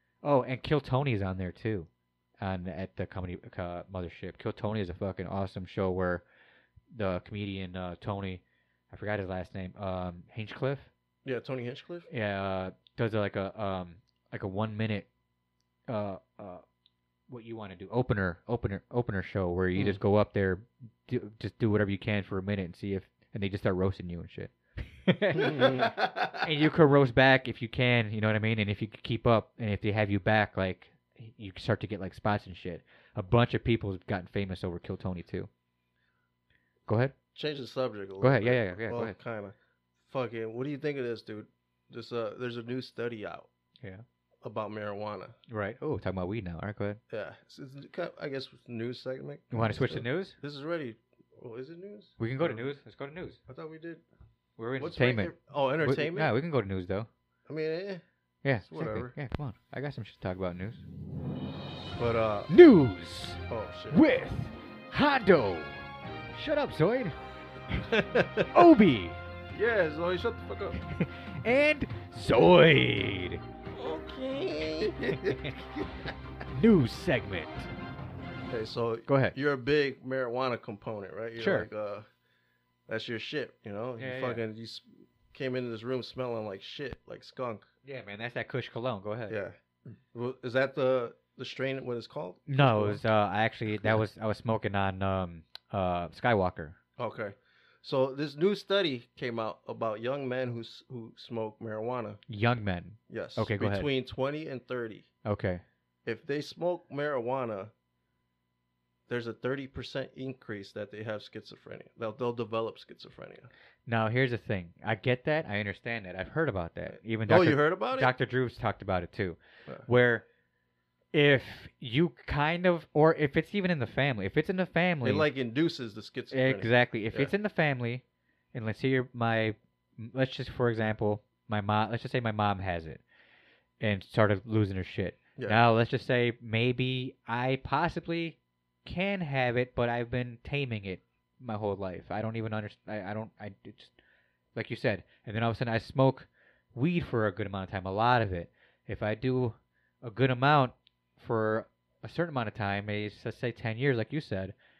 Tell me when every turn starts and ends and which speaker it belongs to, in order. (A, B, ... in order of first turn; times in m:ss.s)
0:00.2-0:06.2 A
0:06.9-0:10.9 A
0:11.2-0:12.1 B
0:12.1-0:15.1 A
0:15.9-0:16.6 A
0:17.3-0:25.8 A
0:25.3-0:25.9 B
0:25.5-0:26.4 C
0:26.4-0:35.5 A
0:36.9-0:37.2 A
0:37.3-0:39.5 B
0:38.2-0:39.2 A
0:40.1-0:43.5 B
0:44.4-0:45.3 B
0:45.5-0:47.0 A
0:47.1-0:52.6 B
0:49.5-0:50.4 A
0:52.2-0:53.4 A
0:53.5-0:54.0 B
0:54.6-0:57.1 A
0:54.8-0:56.3 B
0:57.5-0:58.0 B
0:58.4-1:00.8 A
0:58.6-0:59.1 B
1:02.0-1:02.5 B
1:02.5-1:05.8 A
1:03.5-1:04.0 B
1:06.3-1:07.2 A
1:07.9-1:08.5 B
1:08.5-1:09.2 A
1:09.5-1:10.8 C
1:10.8-1:13.4 A
1:13.7-1:15.2 B
1:15.0-1:15.4 C
1:15.2-1:15.5 A
1:16.5-1:17.7 A
1:18.5-1:22.1 B
1:19.1-1:19.3 A
1:21.4-1:21.7 A
1:22.9-1:27.6 B
1:24.0-1:24.4 A
1:27.8-1:29.4 A
1:29.3-1:29.6 B
1:30.1-1:33.0 B
1:32.5-1:36.8 A
1:37.0-1:42.2 B
1:42.3-1:43.9 A
1:43.1-1:45.1 B
1:45.2-1:45.6 A
1:46.0-1:47.7 B
1:49.1-1:53.5 B
1:53.9-2:00.2 A
1:57.1-1:58.1 B
2:01.1-2:05.3 A
2:05.0-2:07.3 B
2:06.3-2:08.0 A
2:08.5-2:13.0 A
2:13.8-2:23.9 A
2:24.5-2:34.5 A